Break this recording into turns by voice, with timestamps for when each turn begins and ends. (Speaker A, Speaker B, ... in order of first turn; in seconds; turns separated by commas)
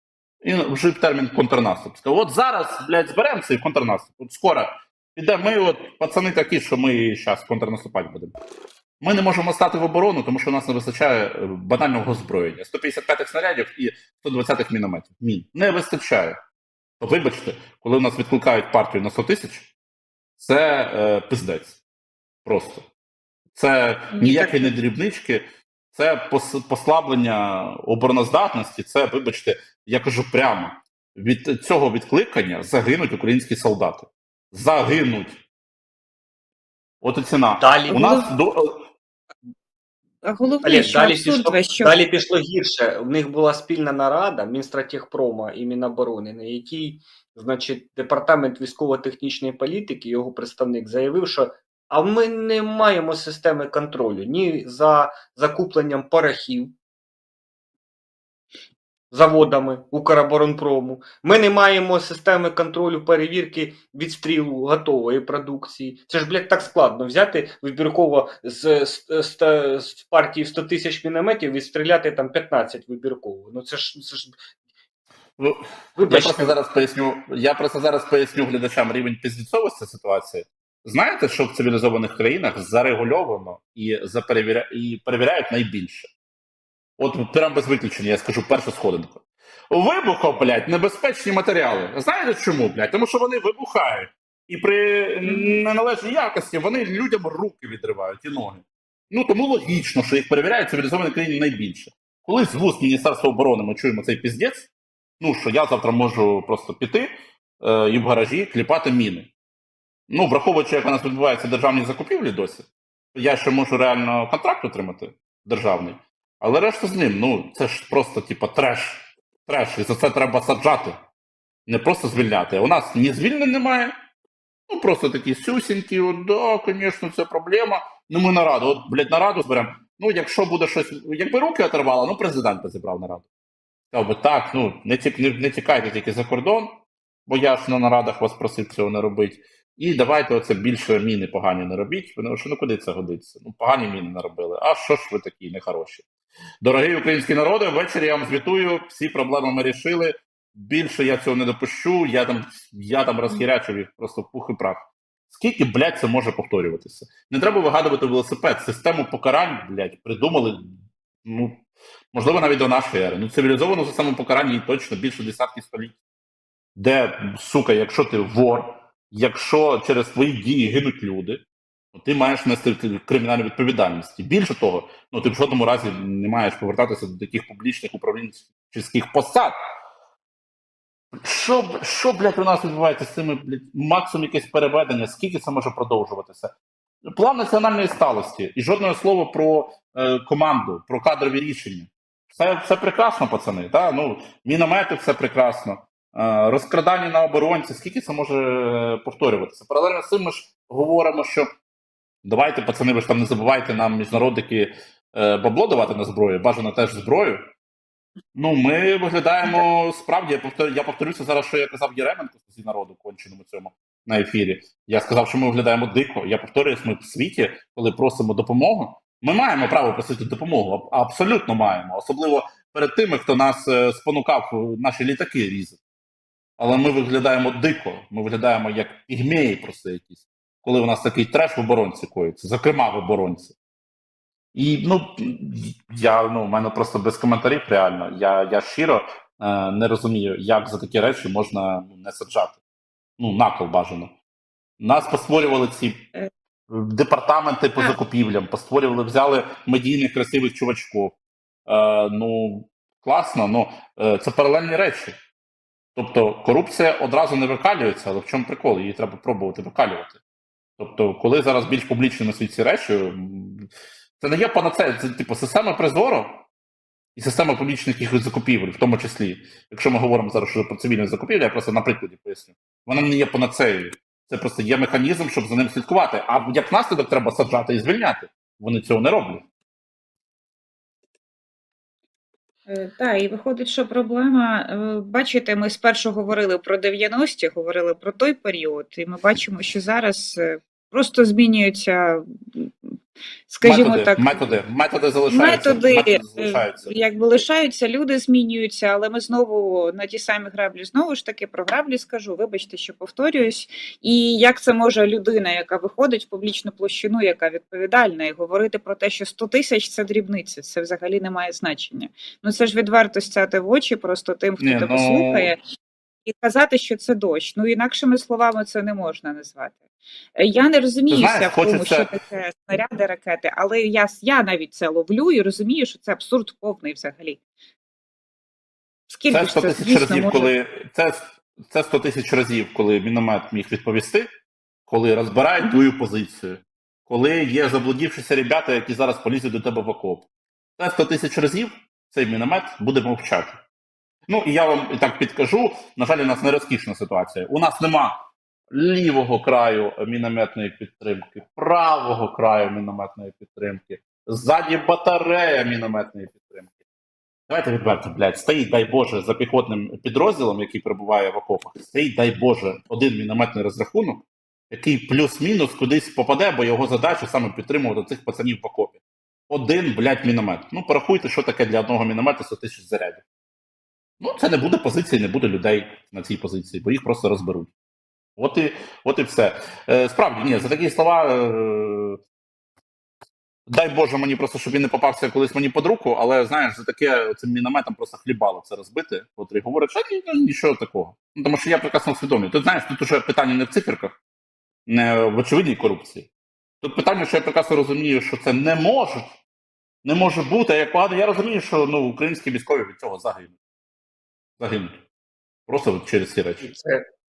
Speaker A: 0.4-8.3, Speaker A: 9.0-16.4, Speaker A: 17.0-19.7, Speaker A: 20.4-21.8, Speaker A: 22.4-22.9, Speaker A: 23.5-35.4, Speaker B: 24.1-24.7, Speaker A: 37.0-38.9, Speaker C: 37.6-38.2, Speaker B: 37.9-38.2, Speaker B: 40.2-41.9, Speaker C: 40.6-56.7, Speaker C: 59.1-74.3, Speaker A: 75.4-86.1, Speaker C: 76.0-76.6, Speaker A: 87.0-107.1, Speaker B: 95.2-95.6, Speaker A: 107.6-109.3, Speaker A: 110.1-121.0, Speaker A: 121.7-123.9, Speaker A: 124.7-133.2, Speaker A: 133.9-146.1, Speaker A: 146.6-165.9, Speaker A: 166.8-179.5, Speaker A: 181.1-186.5, Speaker A: 187.0-201.5, Speaker A: 202.2-207.5, Speaker A: 208.3-225.8, Speaker A: 226.6-233.5, Speaker A: 234.5-242.6, Speaker A: 243.2-244.1, Speaker A: 244.8-246.0, Speaker A: 246.7-251.2, Speaker A: 251.7-255.1, Speaker A: 255.9-260.2, Speaker A: 260.8-263.7, Speaker A: 264.2-266.4, Speaker A: 267.1-279.5, Speaker B: 282.7-292.7, Speaker B: 293.5-294.6, Speaker A: 293.6-296.9, Speaker B: 295.3-315.6, Speaker A: 314.6-315.5, Speaker B: 316.2-319.8, Speaker B: 320.4-327.4, Speaker A: 321.1-322.1, Speaker B: 329.1-330.5, Speaker A: 329.3-334.3, Speaker A: 334.9-340.3, Speaker A: 340.8-343.6, Speaker A: 344.3-356.7, Speaker A: 357.5-373.2, Speaker A: 374.2-377.7, Speaker A: 378.4-382.2, Speaker A: 383.7-394.2, Speaker A: 394.9-396.3, Speaker A: 396.8-399.4, Speaker A: 400.0-403.5, Speaker A: 404.6-405.0, Speaker A: 405.7-406.7, Speaker C: 406.6-407.1